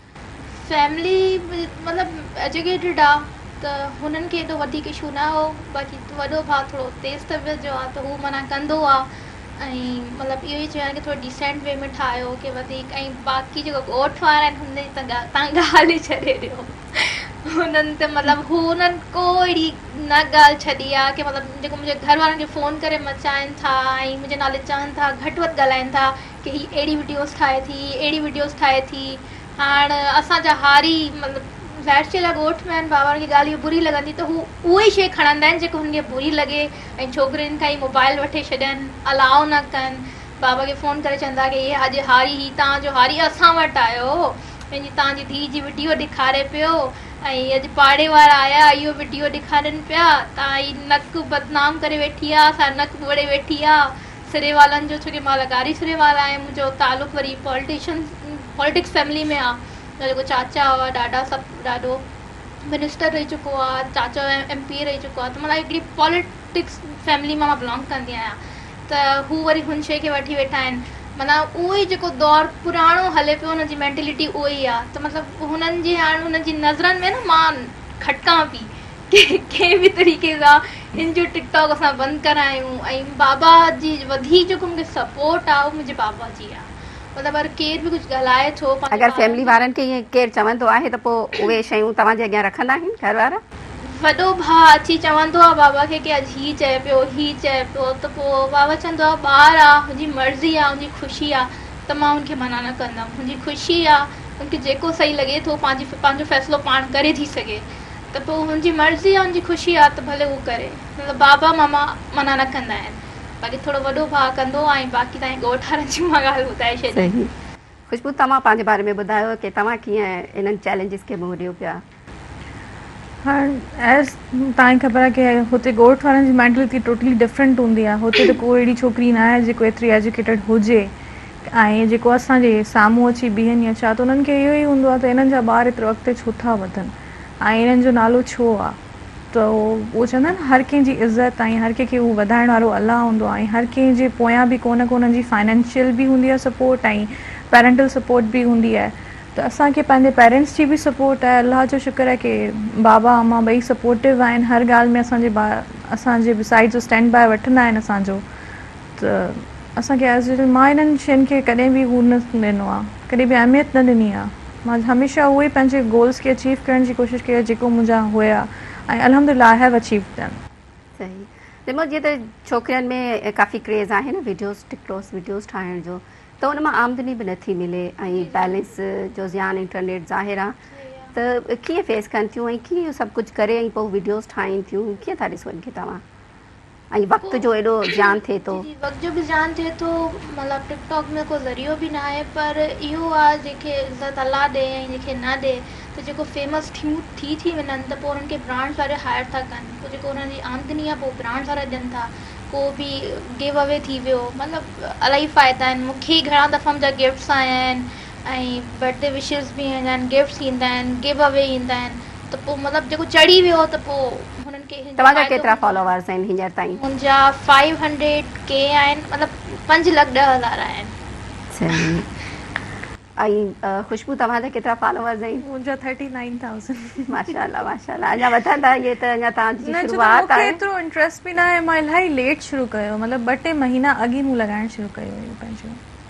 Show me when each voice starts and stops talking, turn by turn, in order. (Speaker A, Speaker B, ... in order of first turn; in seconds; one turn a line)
Speaker A: 0.5-62.1
Speaker A: 62.6-89.7
Speaker B: 88.9-93.4
Speaker A: 93.8-117.2
Speaker B: 117.0-117.3
Speaker B: 117.9-121.8
Speaker C: 123.2-130.9
Speaker C: 131.5-138.8
Speaker C: 139.3-158.2
Speaker C: 159.0-170.4
Speaker B: 171.0-180.6
Speaker A: 178.1-178.7
Speaker A: 180.7-181.2
Speaker B: 181.2-186.0
Speaker B: 186.9-188.7
Speaker A: 187.2-215.9
Speaker B: 215.0-216.8
Speaker A: 216.8-220.9
Speaker B: 221.5-222.1
Speaker B: 223.2-225.4
Speaker C: 225.4-227.3
Speaker B: 227.1-230.6
Speaker C: 229.7-235.8